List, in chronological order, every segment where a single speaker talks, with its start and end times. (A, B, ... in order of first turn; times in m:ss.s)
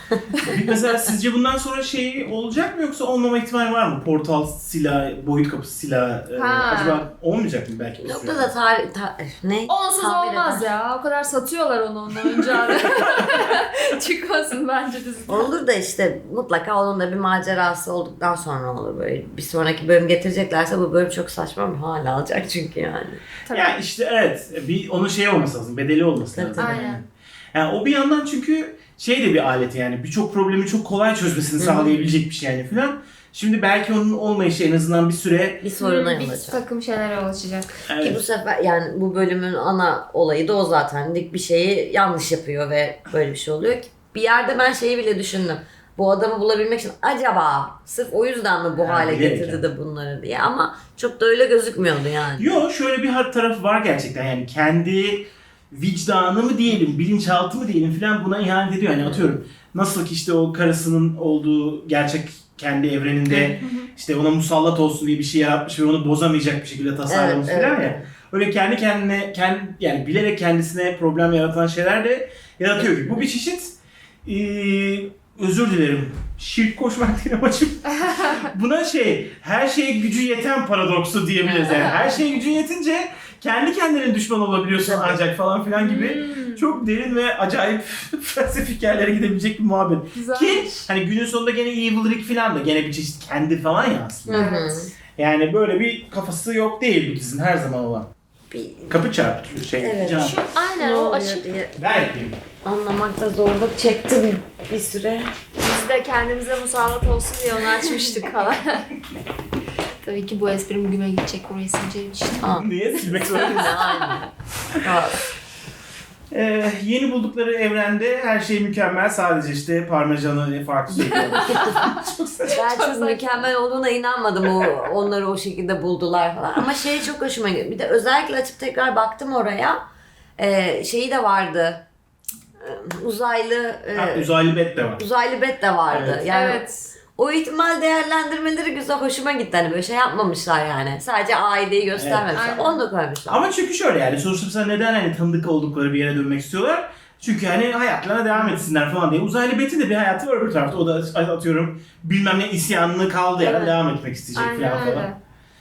0:00.4-0:08.5 A
0:06.3-0:07.0 B
0:08.0-0:10.7 C
0:09.7-0:15.5 B
0:15.3-0:23.2 C
0:23.5-0:23.8 B
0:23.5-0:35.6 A
0:26.3-0:26.9 C
0:26.6-0:27.0 B
0:31.6-0:32.2 C
0:35.6-0:36.6 C
0:35.8-0:37.8 B
0:37.9-0:38.2 A
0:38.0-0:52.6 C
0:48.8-0:49.6 A
0:52.4-1:34.5 A
1:03.3-1:03.6 C
1:03.6-1:03.9 B
1:07.1-1:08.1 C
1:12.8-1:13.3 C
1:18.0-1:18.4 B
1:21.4-1:22.0 C
1:21.7-1:22.2 B
1:24.8-1:25.2 C
1:25.7-1:26.8 B
1:30.1-1:30.9 B
1:34.3-1:34.9 C
1:34.3-1:34.9 B
1:35.2-1:38.1 A
1:38.5-1:39.0 C
1:38.9-1:40.4 A
1:39.8-1:41.7 C
1:40.1-1:41.5 B
1:41.8-1:42.4 A
1:42.6-1:45.3 C
1:45.6-1:48.8 B
1:47.8-1:48.3 C
1:50.0-1:54.2 B
1:52.4-1:52.7 C
1:52.6-1:53.9 A
1:53.3-1:54.3 C
1:54.8-1:55.2 C
1:56.3-2:02.6 A
2:00.9-2:01.8 C
2:01.0-2:03.4 B
2:02.5-2:09.8 C
2:10.4-2:11.8 C
2:12.6-2:14.3 C
2:13.9-2:15.0 A
2:15.0-2:16.6 C
2:15.9-2:16.2 A
2:16.3-2:16.9 B
2:17.2-2:23.5 C
2:21.9-2:22.2 A
2:22.3-2:22.8 B
2:23.3-2:35.1 A
2:33.4-2:33.8 C
2:34.3-2:35.2 B